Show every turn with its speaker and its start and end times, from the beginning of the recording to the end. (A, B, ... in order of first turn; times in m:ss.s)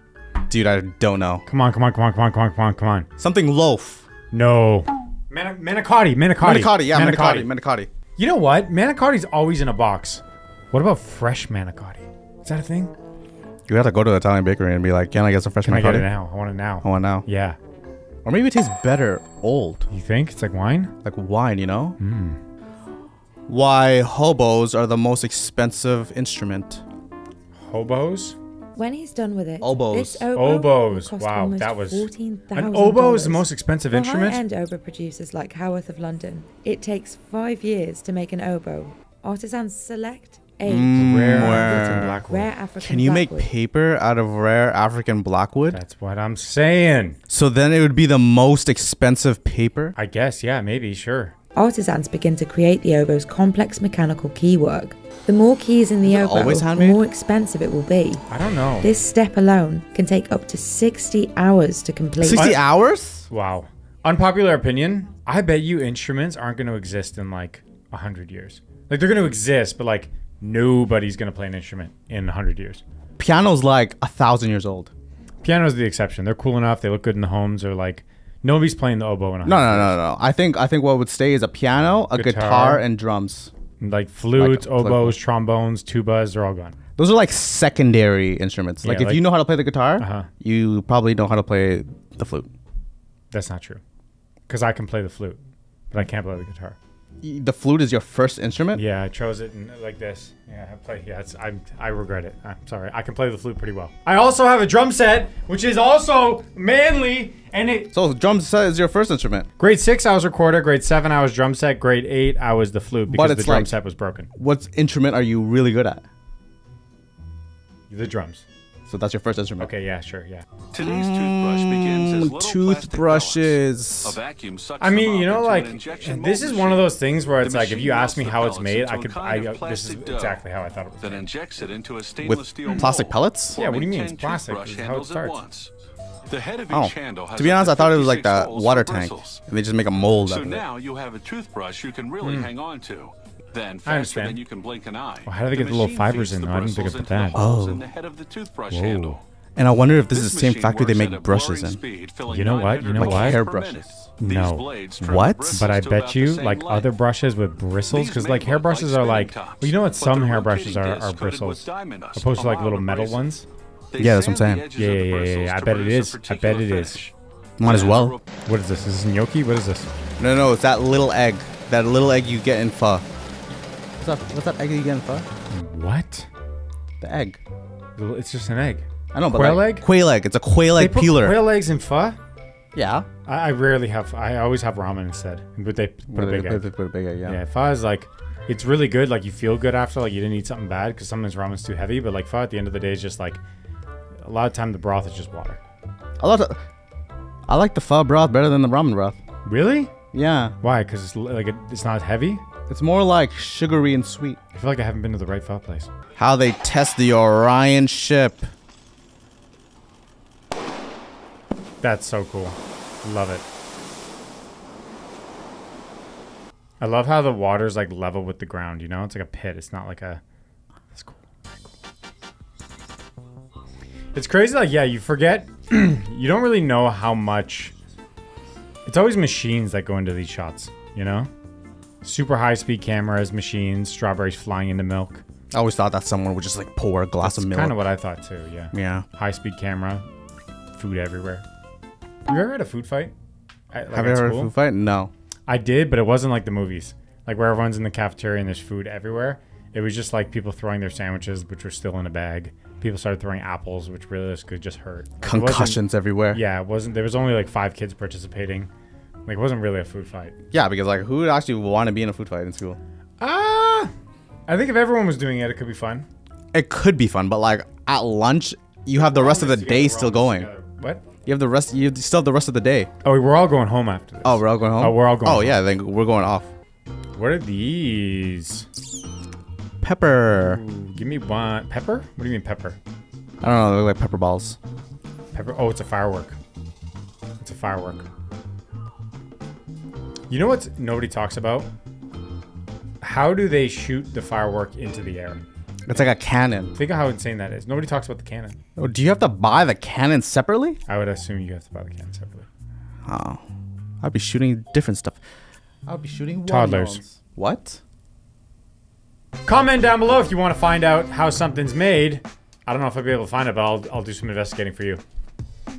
0:00.5-0:01.4 A
0:01.4-0:03.1 B
0:03.2-0:04.0 A
0:04.3-0:07.5 B
0:06.4-0:07.9 A
0:08.2-0:12.9 B
0:13.7-0:16.1 A
0:15.6-0:17.6 B
0:16.8-0:17.3 A
0:18.2-0:19.9 A
0:19.9-0:20.9 B
0:21.0-0:22.0 A
0:22.0-0:22.4 B
0:23.5-0:26.8 A
0:27.5-0:28.4 B
0:28.8-0:43.5 C
0:29.6-0:30.3 A
0:30.3-0:34.4 B
0:40.6-0:42.2 A
0:40.9-0:42.5 B
0:42.8-0:45.8 A
0:45.7-0:47.2 B
0:47.3-0:50.0 A
0:50.0-0:51.3 B
0:51.5-0:58.2 C
0:56.0-0:57.0 A
0:58.3-0:58.9 B
0:58.8-1:02.5 C
1:02.2-1:03.3 A
1:02.3-1:02.6 B
1:03.3-1:12.8 B
1:13.2-1:14.9 A
1:15.4-1:20.0 B
1:19.4-1:23.5 A
1:22.1-1:22.8 B
1:23.8-1:26.8 B
1:24.4-1:25.2 A
1:27.0-1:32.5 A
1:28.8-1:29.2 B
1:30.0-1:30.3 B
1:33.3-1:33.8 B
1:34.5-1:35.4 B
1:35.9-1:36.8 B
1:37.2-1:38.8 A
1:38.7-1:47.9 B
1:47.9-1:49.5 A
1:49.6-1:54.3 B
1:53.1-1:53.7 A
1:54.4-1:56.0 A
1:57.9-1:58.4 B
1:58.9-1:59.7 A
1:59.6-2:00.4 B
2:00.7-2:10.4 D
2:00.8-2:04.2 A
2:04.8-2:11.3 B
2:11.0-2:15.7 D
2:12.2-2:13.6 A
2:13.6-2:15.4 B
2:16.3-2:19.4 D
2:16.7-2:20.6 A
2:20.2-2:29.2 D
2:22.2-2:22.5 B
2:23.8-2:24.4 B
2:25.2-2:27.4 B
2:27.3-2:27.8 A
2:28.7-2:29.2 B
2:29.6-2:31.8 A
2:30.0-2:36.9 D
2:32.3-2:33.4 B
2:33.0-2:34.1 A
2:34.2-2:43.5 B
2:35.0-2:35.6 A
2:37.9-2:43.3 D
2:43.9-2:48.2 D
2:44.0-2:44.7 A
2:44.7-2:47.0 B
2:47.6-2:48.2 A
2:48.4-2:49.9 B
2:50.2-2:53.0 A
2:54.0-2:55.3 A
2:55.5-2:56.3 B
2:57.0-2:57.4 A
2:58.0-2:59.8 B
2:59.1-3:01.4 A
3:00.7-3:02.2 B
3:02.7-3:03.1 A
3:03.2-3:06.7 B
3:06.1-3:07.4 A
3:07.3-3:13.4 B
3:14.2-3:15.6 B
3:16.2-3:16.6 A
3:17.5-3:19.2 A
3:19.4-3:19.9 B
3:20.1-3:20.5 A
3:20.6-3:22.4 B
3:22.7-3:24.4 A
3:24.5-3:25.9 B
3:26.2-3:28.5 A
3:31.8-3:33.4 B
3:36.8-3:40.2 B
3:40.9-3:41.7 B
3:44.1-3:47.7 B
3:48.8-3:51.3 B
3:52.0-3:55.2 B
3:55.5-3:57.8 A
3:57.2-4:00.0 B
3:58.7-3:59.0 A
4:00.7-4:01.4 B
4:02.2-4:03.1 B
4:03.7-4:04.5 B
4:03.9-4:05.1 A
4:05.5-4:18.7 B
4:15.2-4:16.4 A
4:19.2-4:20.3 B
4:20.5-4:22.8 A
4:23.2-4:23.9 B
4:24.5-4:26.1 B
4:26.5-4:30.5 A
4:28.9-4:31.0 B
4:31.2-4:32.9 A
4:33.0-4:35.6 B
4:34.2-4:36.5 A
4:37.1-4:38.6 B
4:39.8-4:40.6 A
4:40.4-4:42.8 B
4:43.4-4:44.6 A
4:45.3-4:46.4 B
4:47.4-4:48.0 B
4:50.3-4:51.7 B
4:53.0-4:55.4 B
4:55.9-4:56.7 A
4:56.8-4:58.6 B
4:58.8-5:00.8 A
5:00.9-5:02.5 B
5:03.1-5:03.4 A
5:04.0-5:05.2 A
5:05.9-5:07.8 A
5:06.4-5:07.0 B
5:09.4-5:15.0 B